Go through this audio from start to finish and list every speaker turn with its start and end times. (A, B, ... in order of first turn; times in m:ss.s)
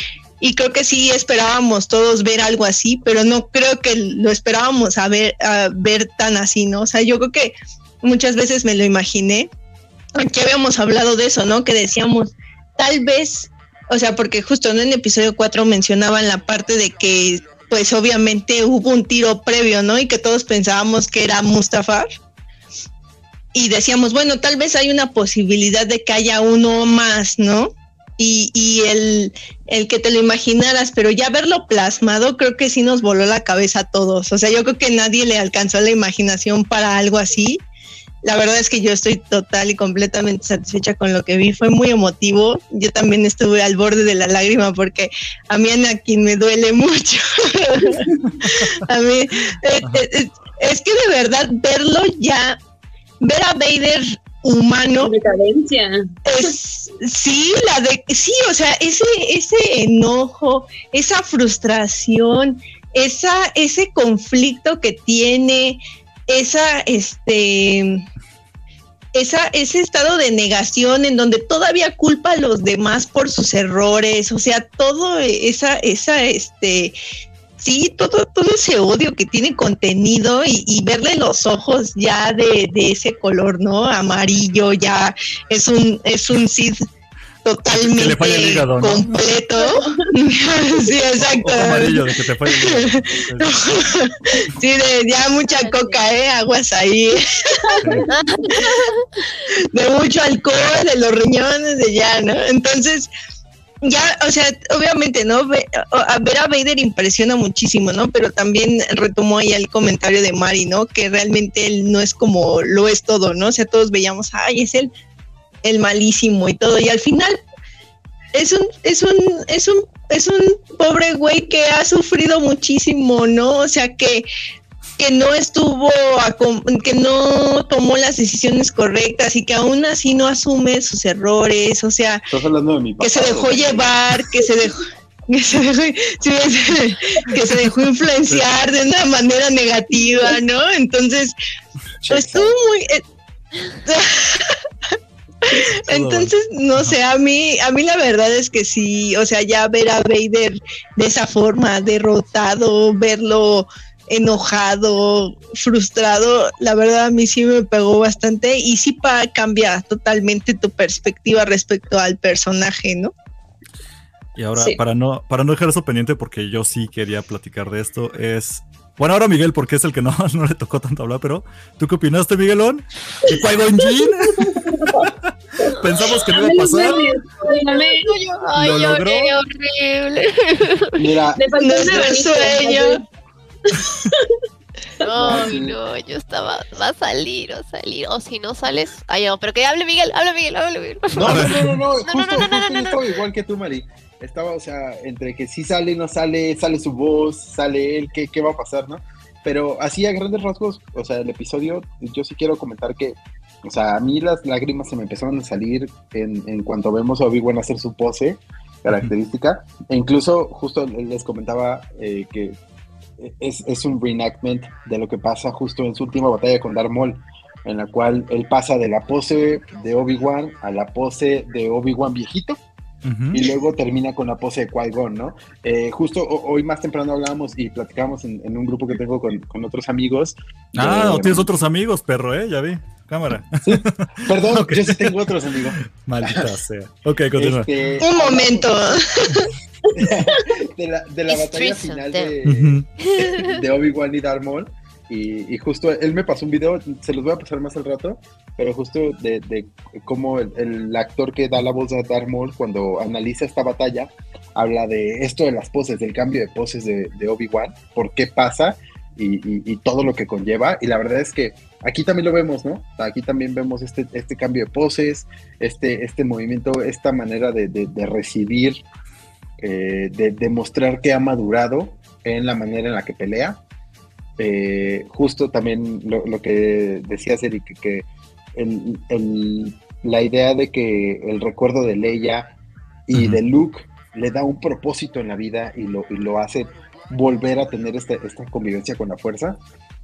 0:00.4-0:09.5 A
0:10.1-0:22.1 A
0:23.5-0:37.6 A
0:38.2-0:52.6 A
0:47.9-0:48.2 B
0:48.4-0:48.7 C
0:53.2-0:55.1 A
0:55.0-0:56.0 B
0:56.2-1:08.0 A
1:09.1-1:16.9 A
1:17.6-1:26.8 A
1:27.4-1:37.8 A
1:27.7-1:29.1 C
1:29.6-1:30.0 B
1:31.2-1:33.7 C
1:35.4-1:36.0 D
1:37.7-1:38.1 B
1:38.0-1:39.0 D
1:39.7-1:43.1 A
1:43.8-1:54.9 A
1:55.6-1:57.4 A
1:58.3-2:04.3 A
2:05.0-2:12.2 A
2:12.3-2:13.9 E
2:13.0-2:21.4 A
2:22.0-2:22.5 E
2:22.1-2:23.0 A
2:23.8-2:24.6 A
2:25.4-2:43.1 A
2:25.8-2:26.9 C
2:44.4-2:55.1 C
2:53.2-2:58.1 B
2:55.6-2:57.0 C
2:56.8-3:01.0 D
2:58.5-2:59.3 C
3:01.0-3:01.4 E
3:01.4-3:03.0 B
3:01.6-3:03.0 A
3:03.7-3:04.3 B
3:05.0-3:13.0 D
3:05.2-3:05.4 B
3:05.2-3:05.8 E
3:11.1-3:32.6 E
3:11.2-3:11.8 C
3:33.2-3:42.6 E
3:43.0-3:43.4 C
3:43.3-3:51.5 E
3:50.8-3:55.2 C
3:53.6-3:56.5 E
3:56.0-3:57.7 C
3:57.4-3:59.0 E
3:58.0-3:59.5 A
3:59.9-4:28.8 E
4:01.3-4:02.3 D
4:02.4-4:02.8 C
4:03.0-4:03.6 D
4:29.6-4:33.6 E
4:34.4-4:42.5 E
4:43.1-4:49.6 E
4:43.1-4:43.4 C